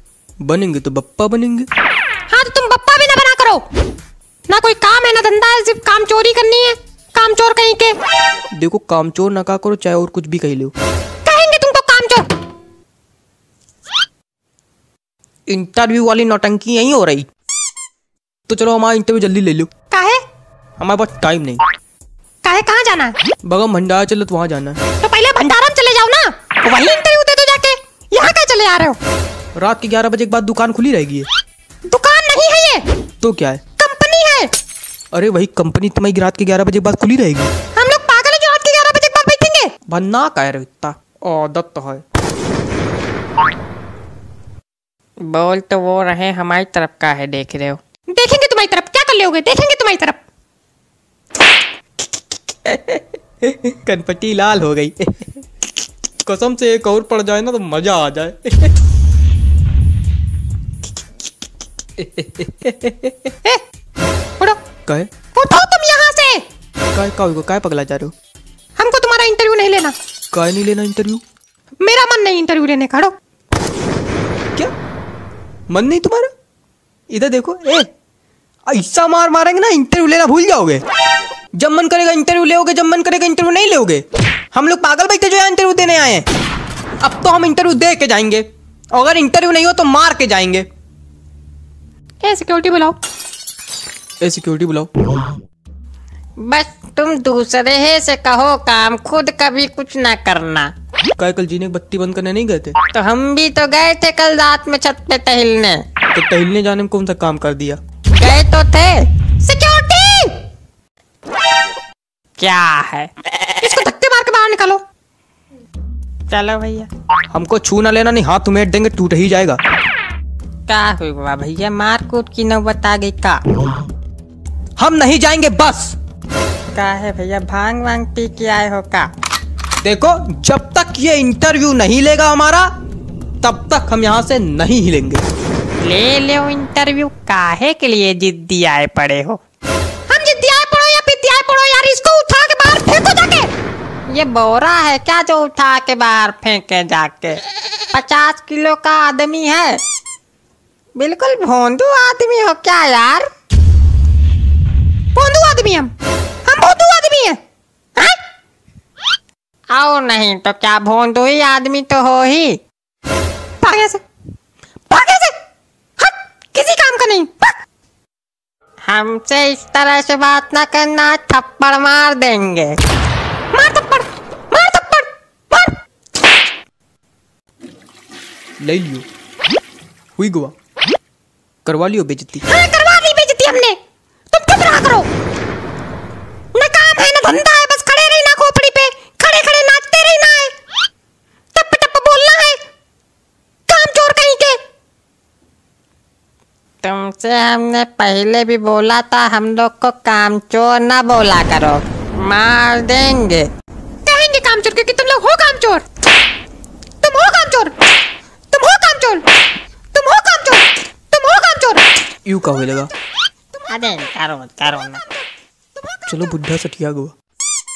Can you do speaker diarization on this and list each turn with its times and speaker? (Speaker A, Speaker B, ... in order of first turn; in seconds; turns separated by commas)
Speaker A: 0.4-1.7, Speaker B: 2.3-3.6, Speaker B: 4.5-8.0, Speaker A: 8.5-10.7, Speaker B: 11.2-12.3, Speaker A: 15.5-17.3, Speaker A: 18.5-19.7, Speaker B: 19.9-20.2, Speaker A: 20.8-21.6, Speaker B: 22.4-23.2, Speaker A: 23.4-24.8, Speaker B: 25.0-29.0, Speaker A: 29.6-31.3, Speaker B: 31.9-32.8, Speaker A: 33.2-33.6, Speaker B: 33.8-34.5, Speaker A: 35.1-37.5, Speaker B: 37.8-39.7, Speaker A: 39.9-42.0, Speaker C: 45.2-47.8, Speaker B: 48.1-50.2, Speaker A: 52.6-55.3, Speaker A: 56.2-58.7, Speaker A: 62.0-63.1, Speaker B: 65.3-66.4, Speaker A: 66.9-68.1, Speaker B: 68.8-70.0, Speaker A: 70.3-71.2, Speaker B: 71.8-73.1, Speaker A: 75.7-76.3, Speaker A: 77.1-77.9, Speaker A: 78.7-80.8, Speaker A: 81.5-86.3, Speaker A: 87.0-90.7, Speaker B: 92.2-93.0, Speaker A: 94.2-95.1, Speaker C: 96.4-100.7, Speaker A: 101.2-102.8, Speaker C: 102.9-105.8, Speaker A: 106.1-107.8, Speaker C: 108.2-109.1, Speaker B: 109.4-110.3, Speaker C: 112.4-113.1, Speaker B: 113.6-114.8, Speaker C: 116.3-116.9, Speaker A: 117.3-119.6, Speaker C: 120.7-123.4, Speaker A: 124.8-126.0, Speaker C: 126.7-129.1, Speaker A: 129.8-132.7, Speaker A: 133.4-135.2, Speaker C: 135.8-139.4, Speaker B: 140.1-143.5, Speaker C: 144.1-149.8, Speaker C: 151.0-153.3, Speaker B: 155.2-155.9, Speaker B: 156.4-157.4, Speaker C: 159.7-162.6, Speaker B: 163.6-164.0, Speaker B: 164.9-165.3, Speaker B: 166.0-167.5, Speaker C: 168.8-172.8, Speaker B: 173.5-175.8, Speaker A: 178.6-179.1, Speaker A: 180.2-180.5, Speaker A: 181.7-182.4, Speaker B: 182.4-183.8, Speaker B: 184.3-185.1, Speaker B: 186.5-190.5, Speaker B: 191.5-192.6, Speaker B: 193.7-194.6, Speaker C: 196.8-203.5, Speaker B: 204.1-205.8, Speaker B: 207.0-207.7, Speaker B: 208.5-209.2, Speaker B: 209.9-211.8, Speaker A: 212.2-212.9, Speaker C: 213.7-215.0, Speaker A: 216.1-217.1